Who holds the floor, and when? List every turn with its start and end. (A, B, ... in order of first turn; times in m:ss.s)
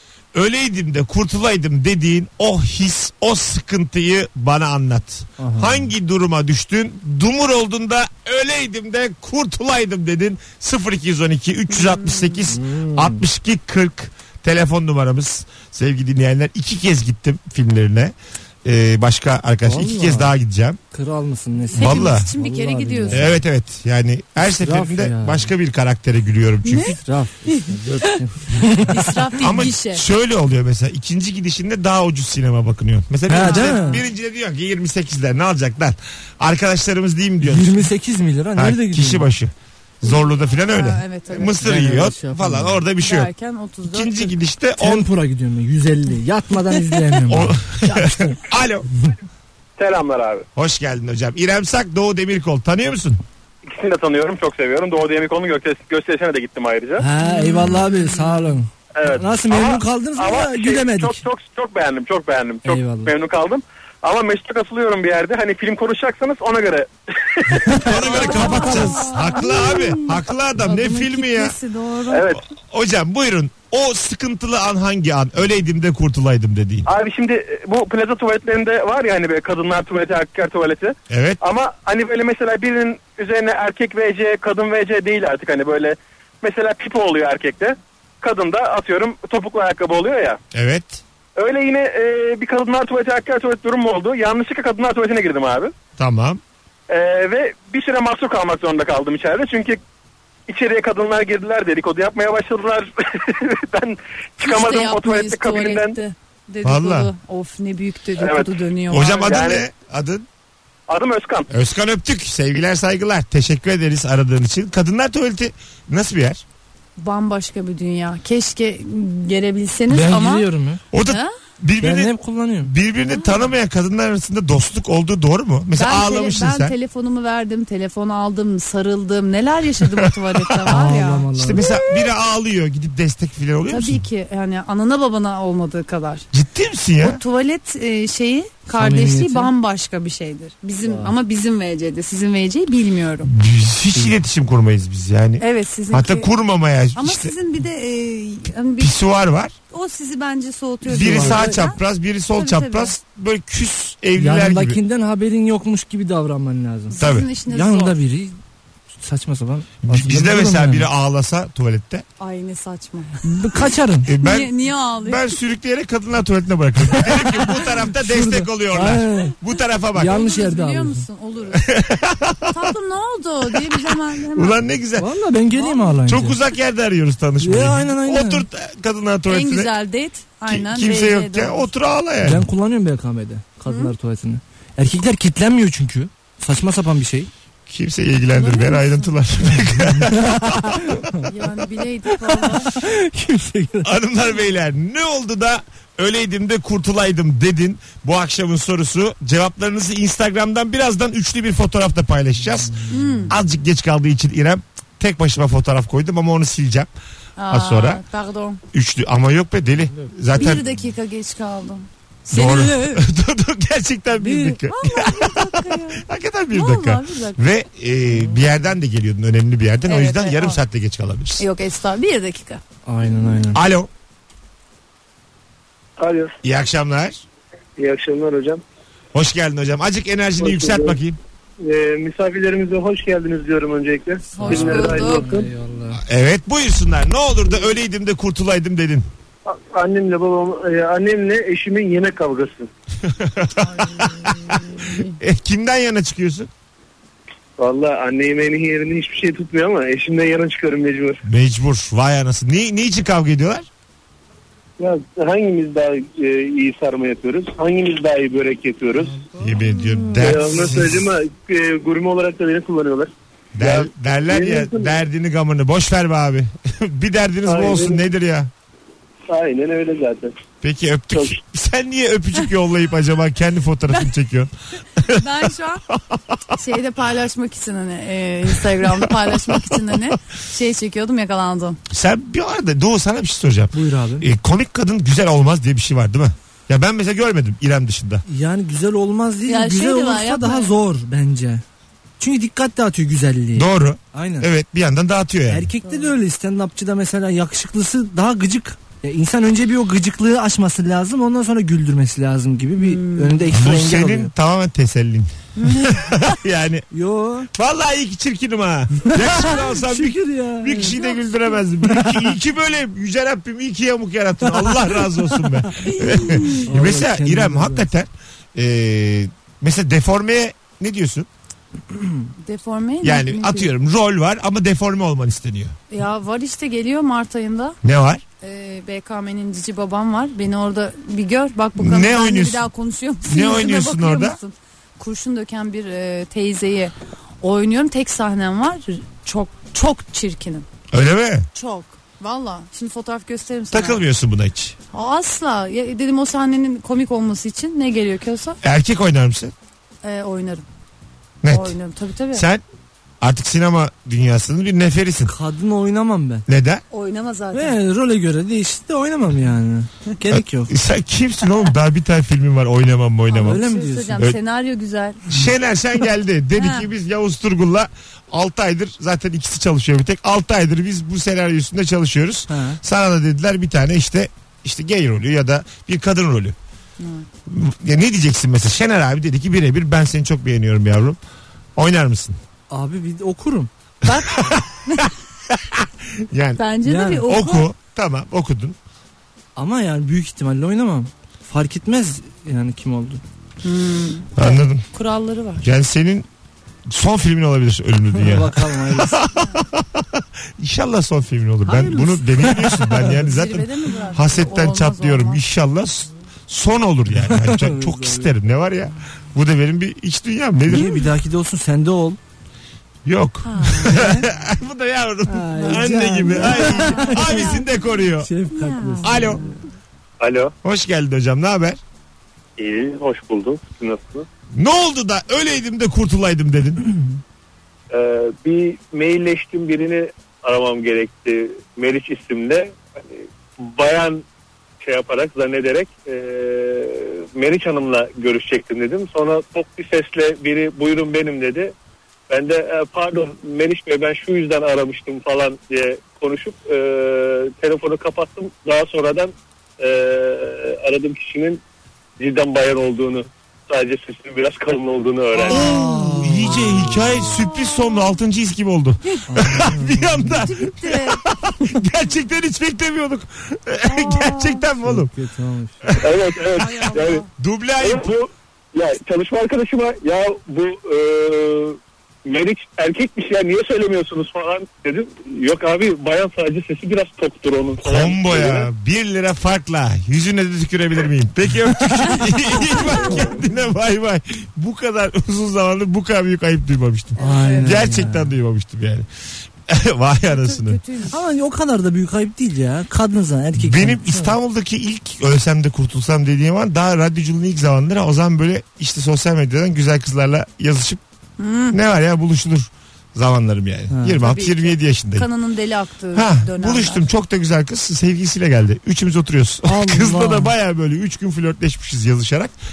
0:00.3-0:20.8 A
0:05.4-0:05.9 B
0:11.7-0:12.4 C
0:12.5-0:13.2 B
0:19.6-0:20.3 B
0:20.9-0:23.4 B
0:21.7-0:23.3 C
0:21.8-0:22.3 A
0:23.1-0:26.9 A
0:24.5-0:25.4 B
0:26.6-0:28.2 C
0:26.8-0:29.3 B
0:28.9-0:30.0 C
0:29.4-0:37.9 A
0:33.3-0:34.0 B
0:33.3-0:34.0 C
0:37.4-0:39.2 B
0:38.6-0:43.3 A
0:40.5-0:41.7 C
0:41.5-0:42.8 B
0:43.0-0:44.3 C
0:43.8-0:45.1 A
0:44.8-0:48.4 B
0:47.3-0:48.9 A
0:49.8-0:50.5 D
0:50.6-0:53.2 A
0:53.6-0:57.0 D
0:57.0-1:01.2 B
0:57.2-0:58.4 C
0:59.0-1:08.2 D
1:02.6-1:03.1 B
1:07.7-1:09.3 B
1:07.8-1:11.5 A
1:07.9-1:12.3 C
1:12.1-1:12.4 D
1:12.6-1:16.9 A
1:16.8-1:30.4 D
1:21.1-1:21.4 A
1:30.5-1:31.0 A
1:31.4-1:35.7 D
1:36.0-1:36.4 A
1:36.9-1:39.8 D
1:40.5-1:46.0 D
1:44.4-1:49.5 C
1:46.6-1:47.1 A
1:48.2-1:48.6 D
1:48.9-1:50.2 A
1:49.2-1:49.6 D
1:50.9-1:51.5 D
1:51.5-1:56.4 A
1:57.0-2:00.5 C
1:59.9-2:00.8 B
2:00.9-2:06.7 A
2:01.0-2:01.3 C
2:01.8-2:02.7 B
2:03.1-2:03.5 C
2:05.7-2:11.9 C
2:09.8-2:10.8 A
2:10.6-2:11.6 B
2:11.4-2:14.0 A
2:13.7-2:16.3 C
2:16.3-2:17.2 A
2:17.0-2:23.3 C
2:18.7-2:19.5 B
2:20.8-2:21.1 B
2:23.2-2:27.3 A
2:25.4-2:26.3 C
2:26.9-2:28.9 C
2:28.8-2:29.5 A
2:29.7-2:31.8 C
2:30.9-2:31.6 B
2:30.9-2:34.8 A
2:32.3-2:33.0 C
2:34.2-2:38.4 B
2:36.9-2:38.0 C
2:37.0-2:37.3 A
2:39.0-2:40.9 B
2:39.8-2:42.0 A
2:42.2-2:43.6 C
2:43.2-2:44.1 B
2:44.0-2:44.5 A
2:44.2-2:45.4 C
2:45.0-2:50.2 A
2:47.5-2:49.4 B
2:49.9-2:51.0 B
2:50.0-2:51.7 C
2:51.5-2:52.6 A
2:52.5-2:54.6 C
2:53.4-2:55.1 A
2:55.0-2:56.4 B
2:55.5-2:56.0 C
2:56.0-2:59.7 A
2:57.4-2:58.4 B
2:59.3-3:01.7 C
3:00.5-3:02.5 A
3:02.2-3:07.3 B
3:03.7-3:03.9 C
3:07.7-3:10.8 A
3:08.3-3:09.1 C
3:10.0-3:11.3 B
3:11.2-3:12.7 C
3:12.1-3:13.9 B
3:13.8-3:26.9 A
3:22.9-3:23.3 C
3:27.4-3:28.6 C
3:27.5-3:28.0 A
3:28.7-3:30.6 A
3:30.3-3:33.1 C
3:32.3-3:41.4 A
3:34.2-3:37.4 C
3:39.9-3:40.6 C
3:41.4-3:42.6 C
3:42.8-3:43.6 B
3:43.5-3:43.9 A
3:46.0-3:46.3 E
3:46.4-3:47.2 A
3:47.8-3:48.6 E
3:49.1-3:51.2 A
3:50.4-3:51.0 E
3:51.6-3:55.5 E
3:54.3-3:56.0 B
3:54.3-3:55.3 C
3:56.0-3:59.1 A
3:59.4-4:02.7 E
4:03.0-4:06.5 A
4:03.6-4:05.2 C
4:07.6-4:11.2 E
4:11.2-4:13.7 A
4:14.8-4:19.2 E
4:19.2-4:19.9 B
4:19.4-4:21.0 A
4:20.1-4:24.9 E
4:20.6-4:20.9 B
4:23.5-4:28.5 A
4:27.4-4:28.0 E
4:29.3-4:30.3 E
4:30.6-4:35.3 A
4:35.1-4:35.8 C
4:36.5-4:41.8 C
4:38.8-4:39.9 A
4:41.9-4:48.2 A
4:43.7-4:44.3 B
4:48.3-4:51.6 B
4:49.4-4:50.7 C
4:52.2-4:54.5 B
4:53.6-4:55.7 A
4:55.5-5:04.3 B
4:55.8-4:56.1 C
5:02.8-5:03.5 C
5:03.5-5:06.8 A
5:05.6-5:06.4 C
5:06.9-5:07.5 B
5:07.5-5:21.3 A
5:09.1-5:11.0 B
5:10.9-5:11.5 C
5:15.8-5:16.7 C
5:16.3-5:17.8 B
5:22.4-5:23.7 C
5:23.0-5:25.8 A
5:25.9-5:27.8 C
5:27.8-5:28.2 A
5:28.4-5:40.7 C
5:31.8-5:32.7 A
5:33.3-5:34.4 A
5:40.9-5:41.5 A
5:41.5-5:44.0 C
5:43.7-5:44.8 A
5:44.9-5:48.6 C
5:48.6-5:49.5 A
5:50.0-5:50.6 C
5:51.4-5:51.8 A
5:51.5-5:52.4 C
5:52.3-5:52.6 A
5:53.2-5:55.3 A
5:55.2-5:56.4 B
5:56.5-5:56.8 A
5:56.9-5:57.8 C
5:57.5-6:00.7 B
6:00.3-6:03.6 A
6:03.3-6:05.2 C
6:03.4-6:04.3 B
6:05.3-6:16.6 A
6:06.6-6:06.9 C
6:12.5-6:12.8 B
6:17.0-6:17.2 C
6:17.4-6:21.2 A
6:21.8-6:22.4 A
6:22.7-6:23.7 B
6:24.0-6:25.1 C
6:24.1-6:26.7 A
6:26.6-6:27.7 C
6:26.8-6:27.3 B
6:27.2-6:28.8 A
6:29.6-6:33.2 B
6:33.6-6:35.7 C
6:34.4-6:34.8 A
6:35.6-6:36.3 A
6:36.9-6:51.0 A
6:38.1-6:39.2 B
6:41.6-6:45.4 C
6:47.2-6:48.3 B
6:50.7-6:52.2 B
6:50.7-6:51.0 C
6:53.0-6:58.3 A
6:53.4-6:54.2 C
6:53.8-6:54.2 B
6:55.3-6:59.5 B
6:56.3-6:57.6 C
6:58.5-6:59.5 C
6:59.0-6:59.4 A
7:00.2-7:00.5 E
7:00.6-7:01.8 A
7:02.6-7:04.3 E
7:04.5-7:06.8 A
7:07.9-7:14.2 E
7:14.8-7:21.7 E
7:22.3-7:31.6 E
7:32.2-7:35.7 E
7:35.5-7:45.1 A
7:35.5-7:37.2 B
7:37.3-7:37.7 C
7:39.3-7:40.5 B
7:40.3-7:41.2 C
7:43.8-7:44.6 C
7:44.8-7:45.9 B
7:46.0-7:47.2 E
7:46.6-7:47.3 C
7:46.7-7:48.1 A
7:47.8-7:58.7 E
7:57.8-8:09.1 A
8:07.2-8:07.8 C
8:07.2-8:08.3 B
8:09.7-8:10.8 A
8:10.3-8:11.2 C
8:11.0-8:14.3 B
8:13.6-8:21.0 A
8:21.4-8:21.8 C
8:21.7-8:25.3 A
8:23.9-8:24.2 B
8:24.1-8:27.0 C
8:26.1-8:32.5 A
8:29.6-8:30.5 B